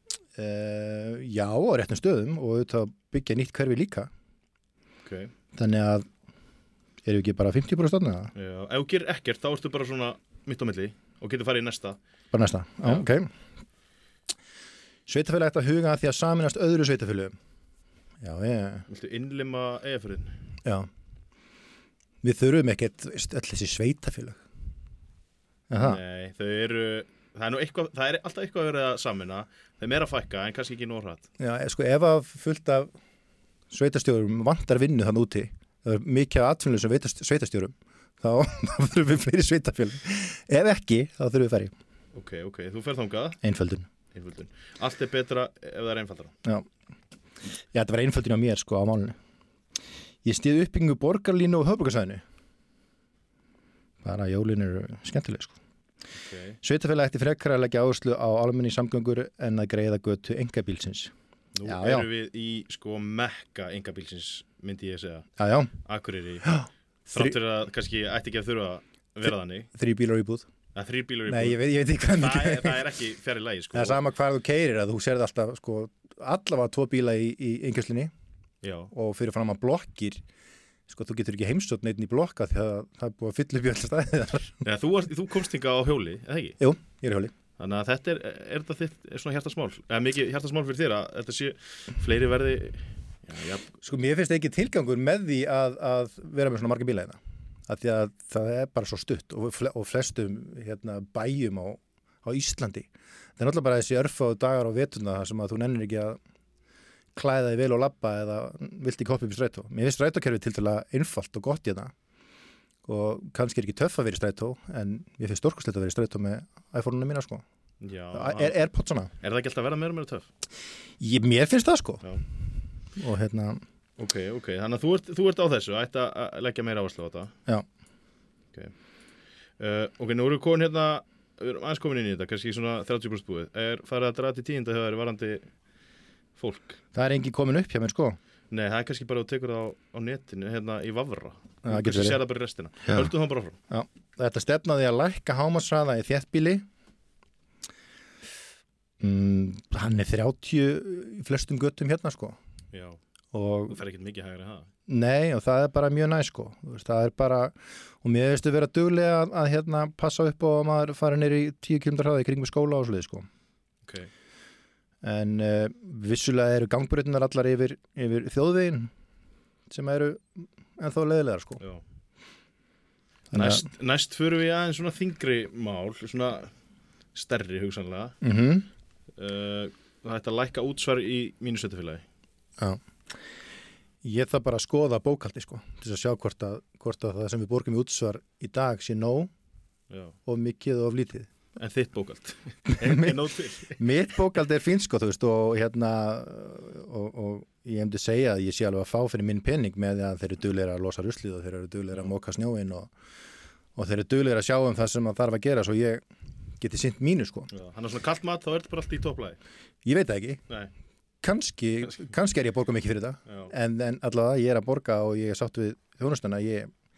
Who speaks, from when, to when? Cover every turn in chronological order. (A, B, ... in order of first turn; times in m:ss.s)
0:00.3-0:04.1 A
0:05.0-0:05.3 B
0:05.5-0:06.1 A
0:07.0-0:08.3 A
0:08.4-0:12.0 B
0:12.3-0:13.3 A
0:12.8-0:13.1 B
0:15.1-0:17.3 A
0:18.2-0:18.9 A
0:18.9-0:20.3 B
0:22.2-0:24.4 A
0:25.7-0:26.0 A
0:25.8-0:31.3 B
0:31.4-0:32.9 A
0:33.7-0:41.7 A
0:42.1-0:43.4 B
0:43.4-0:43.9 A
0:44.1-0:46.3 B
0:47.7-0:49.2 A
0:50.2-0:52.2 A
0:54.0-0:55.6 A
0:56.2-0:56.6 B
0:56.6-1:01.1 A
1:01.6-1:05.3 B
1:01.6-1:02.1 A
1:05.4-1:05.7 A
1:05.8-1:09.7 B
1:06.4-1:07.3 A
1:09.7-1:10.5 A
1:10.7-1:14.0 B
1:11.3-1:12.8 A
1:13.7-1:18.1 A
1:18.6-1:18.9 B
1:18.9-1:20.2 A
1:20.9-1:24.6 A
1:24.6-1:26.6 B
1:26.6-1:27.3 A
1:27.6-1:33.6 B
1:33.8-1:46.2 A
1:47.1-1:51.9 A
1:52.8-1:57.4 A
1:57.8-1:58.6 B
1:58.1-1:59.1 A
1:59.2-2:00.3 B
2:01.0-2:02.0 A
2:03.0-2:03.6 A
2:04.0-2:07.3 B
2:09.6-2:15.5 B
2:16.4-2:16.8 B
2:16.9-2:18.2 A
2:18.5-2:23.6 B
2:21.6-2:22.2 A
2:23.7-2:26.6 A
2:29.0-2:32.4 A
2:32.7-2:33.0 B
2:33.3-2:33.8 A
2:33.7-2:34.7 B
2:34.9-2:43.3 A
2:45.0-2:48.9 A
2:49.7-2:51.6 A
2:53.3-2:53.6 A
2:53.3-2:56.5 B
2:57.1-2:58.2 B
2:58.2-2:58.7 A
2:59.2-3:02.0 B
3:04.0-3:09.3 A
3:09.9-3:10.1 B
3:10.2-3:11.3 A
3:11.6-3:13.8 B
3:12.7-3:13.2 A
3:13.8-3:22.9 A
3:23.8-3:26.0 A
3:26.6-3:27.5 A
3:27.5-3:29.4 B
3:29.8-3:30.4 A
3:31.2-3:36.7 A
3:33.3-3:33.5 B